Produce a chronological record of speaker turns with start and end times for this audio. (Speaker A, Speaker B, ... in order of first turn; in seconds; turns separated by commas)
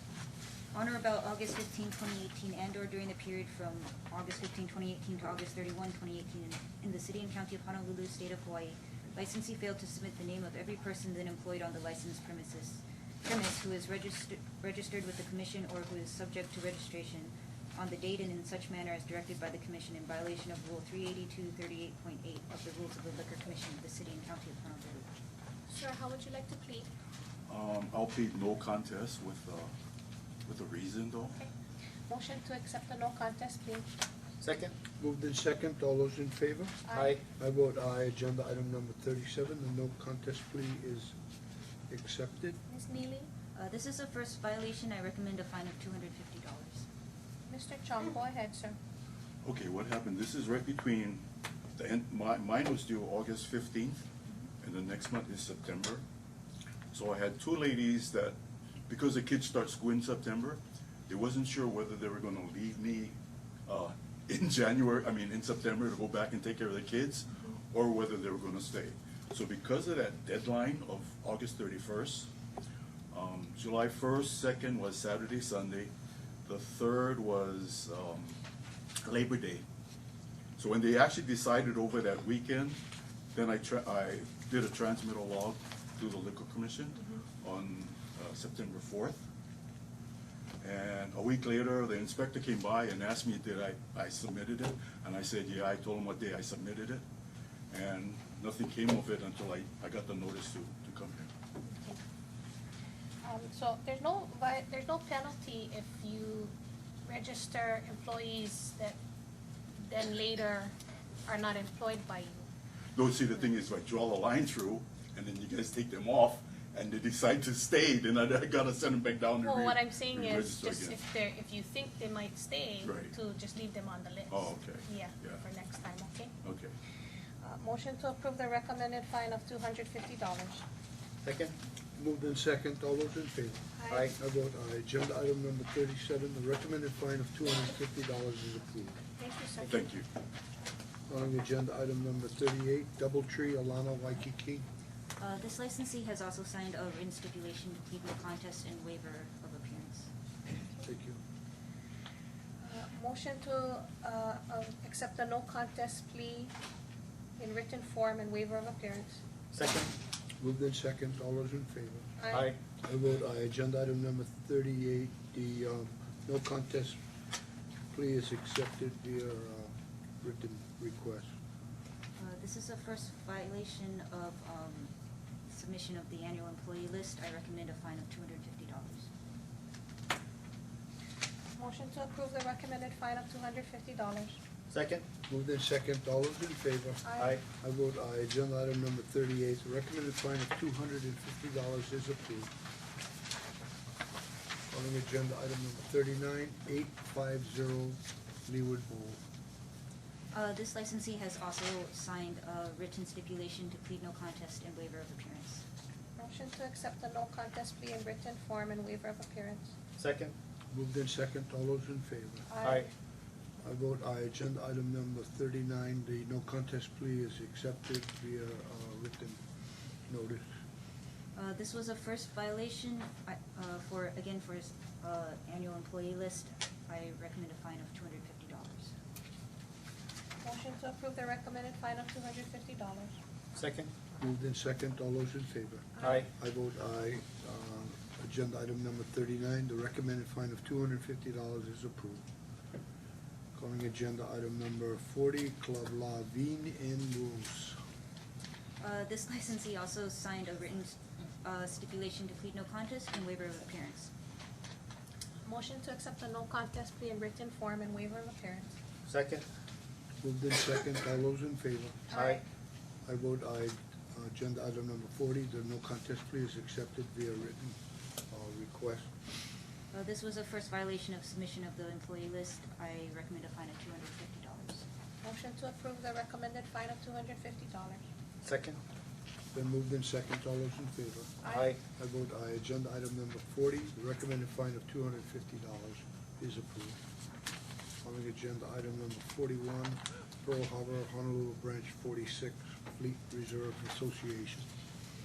Speaker A: 0.7-25.1, Speaker B: 25.7-26.9, Speaker C: 27.5-29.7, Speaker C: 30.4-31.4, Speaker B: 32.1-33.9, Speaker D: 34.4-34.7, Speaker E: 35.0-41.1, Speaker D: 36.9-37.2, Speaker E: 41.9-42.6, Speaker B: 42.7-43.3, Speaker A: 43.5-46.9, Speaker B: 47.5-48.8, Speaker C: 49.4-51.2, Speaker C: 51.8-54.0, Speaker C: 54.6-56.0, Speaker C: 56.9-58.3, Speaker C: 58.9-63.1, Speaker C: 63.6-72.3, Speaker C: 73.1-75.9, Speaker C: 76.5-78.4, Speaker C: 79.0-79.6, Speaker C: 80.6-82.8, Speaker C: 83.3-89.2, Speaker C: 90.6-97.0, Speaker C: 97.7-101.3, Speaker B: 101.6-102.0, Speaker B: 103.2-106.5, Speaker B: 107.0-109.0, Speaker B: 109.8-110.7, Speaker B: 111.3-112.5, Speaker C: 113.0-121.0, Speaker B: 119.4-126.3, Speaker C: 122.8-123.1, Speaker C: 124.3-125.4, Speaker C: 126.4-126.7, Speaker B: 127.4-130.6, Speaker D: 131.2-131.5, Speaker E: 131.9-139.0, Speaker B: 133.8-134.0, Speaker D: 133.9-134.1, Speaker B: 139.2-139.7, Speaker C: 139.7-140.0, Speaker E: 141.1-144.6, Speaker A: 145.2-150.1, Speaker E: 150.8-151.2, Speaker B: 152.6-156.5, Speaker B: 157.4-159.2, Speaker D: 159.5-159.9, Speaker E: 160.4-162.1, Speaker B: 162.2-162.4, Speaker D: 162.3-162.6, Speaker E: 162.8-167.0, Speaker E: 167.9-171.3, Speaker A: 172.2-174.9, Speaker A: 175.5-179.1, Speaker B: 181.6-184.4, Speaker D: 184.7-185.1, Speaker E: 185.3-192.5, Speaker B: 187.0-187.3, Speaker D: 187.2-187.4, Speaker E: 194.7-199.2, Speaker A: 200.3-205.6, Speaker B: 206.2-209.7, Speaker D: 209.9-210.3, Speaker E: 210.7-212.5, Speaker B: 212.5-212.8, Speaker D: 212.6-212.9, Speaker E: 213.6-219.4, Speaker E: 220.1-220.4, Speaker A: 221.3-228.9, Speaker B: 230.4-233.2, Speaker D: 233.5-233.9, Speaker E: 234.2-242.2, Speaker D: 236.0-236.3, Speaker E: 243.5-247.8, Speaker A: 248.8-254.1, Speaker B: 255.4-258.7, Speaker D: 259.1-259.4, Speaker E: 260.2-262.2, Speaker D: 262.1-262.4, Speaker E: 263.1-267.8, Speaker E: 268.3-269.1, Speaker A: 269.9-274.9, Speaker B: 275.2-278.0, Speaker D: 278.4-278.8, Speaker E: 279.5-287.0, Speaker B: 281.4-281.7, Speaker D: 281.5-281.8, Speaker E: 288.0-294.7